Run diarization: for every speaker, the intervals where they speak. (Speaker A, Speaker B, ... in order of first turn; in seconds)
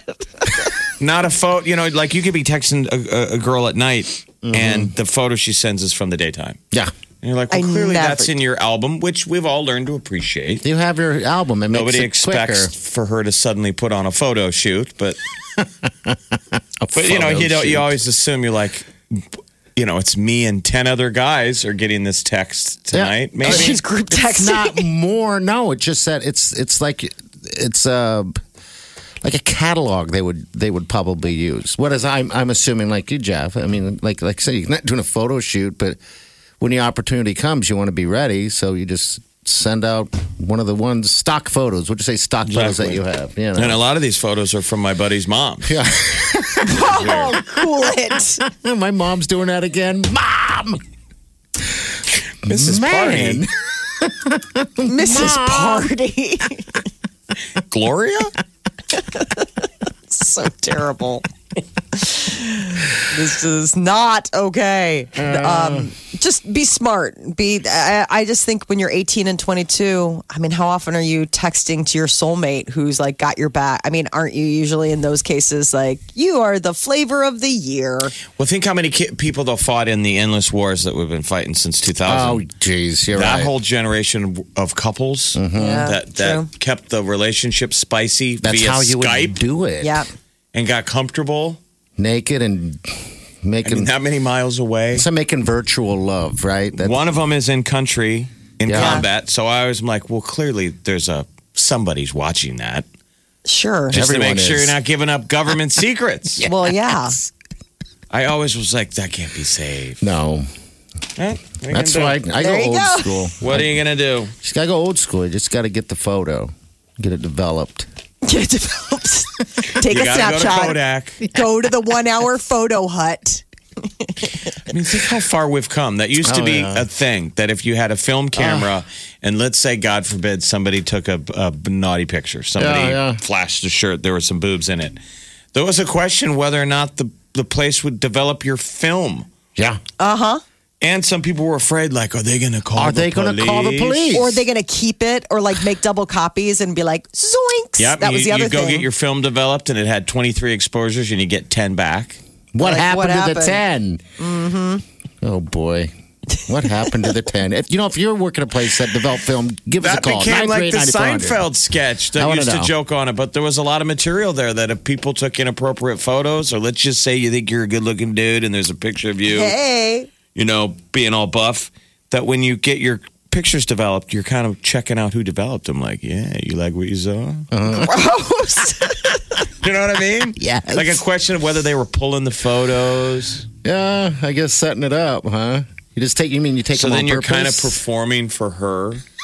Speaker A: 1.0-6.6, 7.2-10.6, 11.7-15.2, 16.9-19.2, 19.8-23.8, 42.5-43.0, 43.5-45.8, 46.9-47.3, 52.4-53.4, 57.7-58.3, 78.3-82.4, 83.1-89.4, 90.5-91.6, 93.6-95.0, 96.8-102.8, 103.9-106.4, 108.1-110.0, 111.2-112.2, 113.4-114.3, 119.8-121.2, 124.7-135.0, 135.5-139.3, 140.8-144.2, 147.8-152.2, 159.8-169.5, 170.3-177.5, 179.6-183.4, 186.8-189.0
Speaker B: 4.4-4.9, 10.6-12.7, 15.6-17.9, 22.9-28.4, 29.2-36.0, 36.6-43.8, 45.6-47.2, 48.4-50.8, 52.5-55.9, 65.2-65.9, 82.0-83.5, 85.3-85.9, 88.4-90.0, 92.0-93.9, 94.9-97.0, 98.6-99.0, 103.9-104.8, 110.0-110.5, 111.7-113.7, 114.4-117.9, 126.2-126.9, 128.3-128.7, 132.6-133.2, 139.6-139.8, 142.8-144.4, 152.5-154.0, 155.2-155.9, 156.4-161.4, 162.2-162.7, 177.5-177.9, 180.4-181.0, 183.6-187.8
Speaker C: 7.5-8.3, 23.4-24.8, 46.6-48.4, 54.8-56.6, 59.1-59.5, 60.1-61.2, 61.9-78.1, 85.5-86.5, 89.8-90.1, 98.7-99.0, 103.5-104.0, 106.4-107.2, 112.4-113.3, 118.2-123.4, 124.0-124.2, 140.0-140.4, 144.1-148.9, 152.6-153.6, 154.2-154.8, 156.6-157.1, 169.3-170.1, 177.8-179.2